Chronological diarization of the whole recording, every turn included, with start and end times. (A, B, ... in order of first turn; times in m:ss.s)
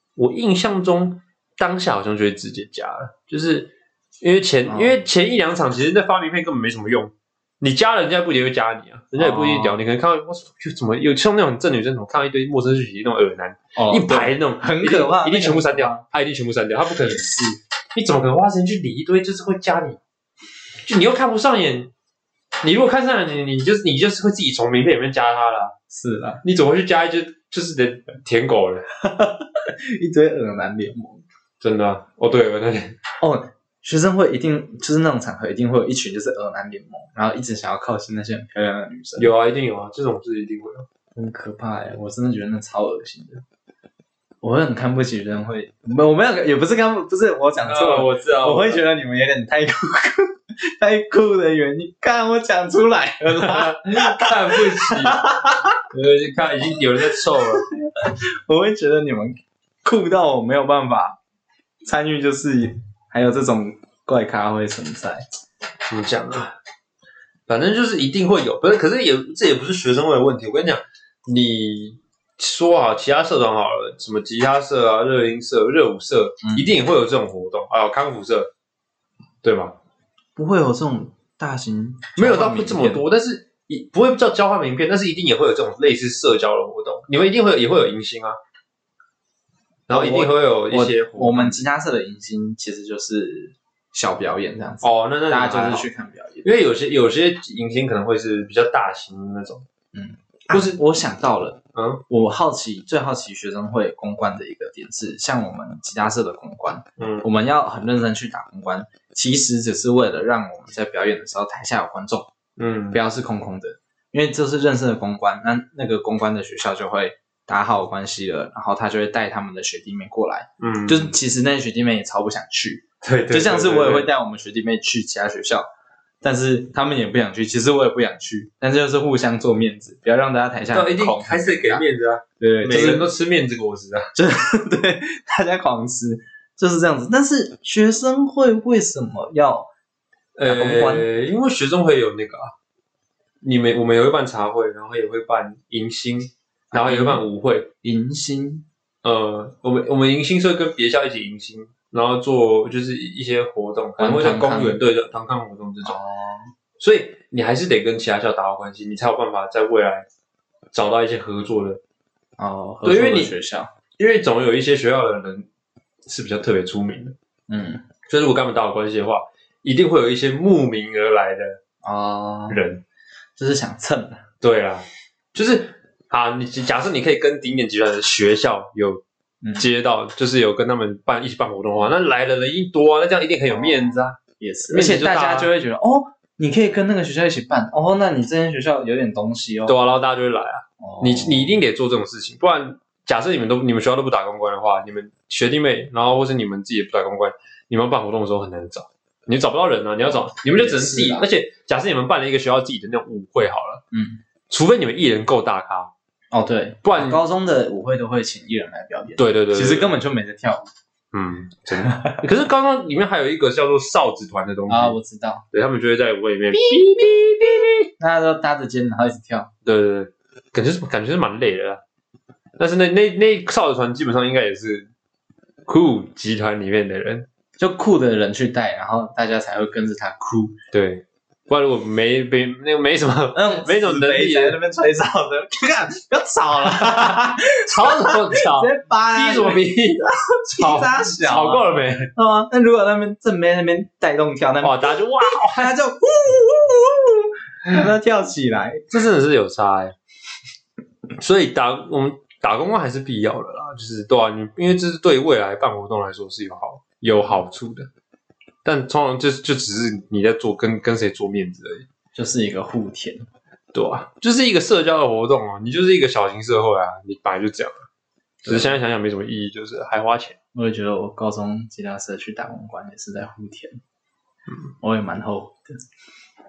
0:00.2-0:17.4 A
0:04.7-0:05.0 B
0:09.2-0:09.8 B
0:13.8-0:16.0 B
0:17.9-0:20.0 A
0:20.8-0:21.9 A
0:22.6-0:25.7 A
0:25.9-0:26.4 B
0:26.4-0:28.8 A
0:29.0-0:31.2 B
0:31.6-0:33.0 A
0:33.2-0:39.3 B
0:39.2-0:40.9 A
0:41.2-0:43.4 B
0:44.4-0:55.8 B
0:47.6-0:48.8 A
0:53.3-0:57.6 A
0:57.2-1:01.2 B
1:01.8-1:05.2 B
1:05.9-1:06.6 A
1:07.5-1:18.5 A
1:16.4-1:16.7 B
1:19.4-1:19.7 A
1:20.4-1:23.0 B
1:22.2-1:28.4 A
1:29.9-1:31.6 A
1:29.9-1:36.5 B
1:34.8-1:35.9 A
1:36.4-1:39.6 A
1:39.9-1:52.3 B
1:40.5-1:40.8 A
1:41.7-1:42.0 A
1:47.0-1:47.2 A
1:52.6-1:53.0 A
1:52.9-2:05.6 B
2:00.6-2:01.2 A
2:03.0-2:04.1 A
2:06.2-2:11.8 B
2:10.7-2:14.1 A
2:12.4-2:13.1 B
2:14.1-2:19.7 B
2:20.4-2:22.5 A
2:20.4-2:21.1 B
2:23.4-2:27.7 A
2:26.7-2:27.2 B
2:27.8-2:28.6 B
2:29.0-2:36.0 A
2:34.0-2:34.8 B
2:35.8-2:36.5 B
2:36.8-2:40.0 A
2:40.7-2:41.8 A
2:42.4-2:43.7 B
2:42.8-2:43.3 A
2:44.0-2:45.5 A
2:46.0-2:47.1 A
2:47.5-2:47.8 B
2:48.0-2:51.6 A
2:51.8-2:52.6 B
2:52.5-2:52.8 A
2:53.4-2:54.2 B
2:54.4-2:59.0 A
2:59.6-3:05.5 A
3:04.4-3:09.8 B
3:09.6-3:23.8 A
3:10.8-3:11.6 B
3:20.5-3:21.3 B
3:23.9-3:24.2 B
3:24.5-3:25.9 A
3:26.3-3:30.6 B
3:26.8-3:27.2 A
3:29.2-3:30.0 A
3:31.1-3:35.0 A
3:31.8-3:32.2 B
3:34.7-3:35.4 B
3:35.5-3:37.9 A
3:38.0-3:39.5 B
3:39.6-3:41.8 A
3:42.6-3:44.9 A
3:45.6-3:47.3 A
3:47.6-3:50.6 B
3:50.7-3:54.6 A
3:53.3-4:08.9 B
3:56.9-4:00.0 A
4:00.6-4:02.1 A
4:04.6-4:05.8 A
4:08.9-4:09.9 A
4:11.2-4:17.9 A
4:18.6-4:21.9 A
4:22.1-4:23.2 B
4:23.7-4:27.9 A
4:28.4-4:30.4 A
4:28.4-4:28.8 B
4:30.5-4:33.8 B
4:34.8-4:35.8 B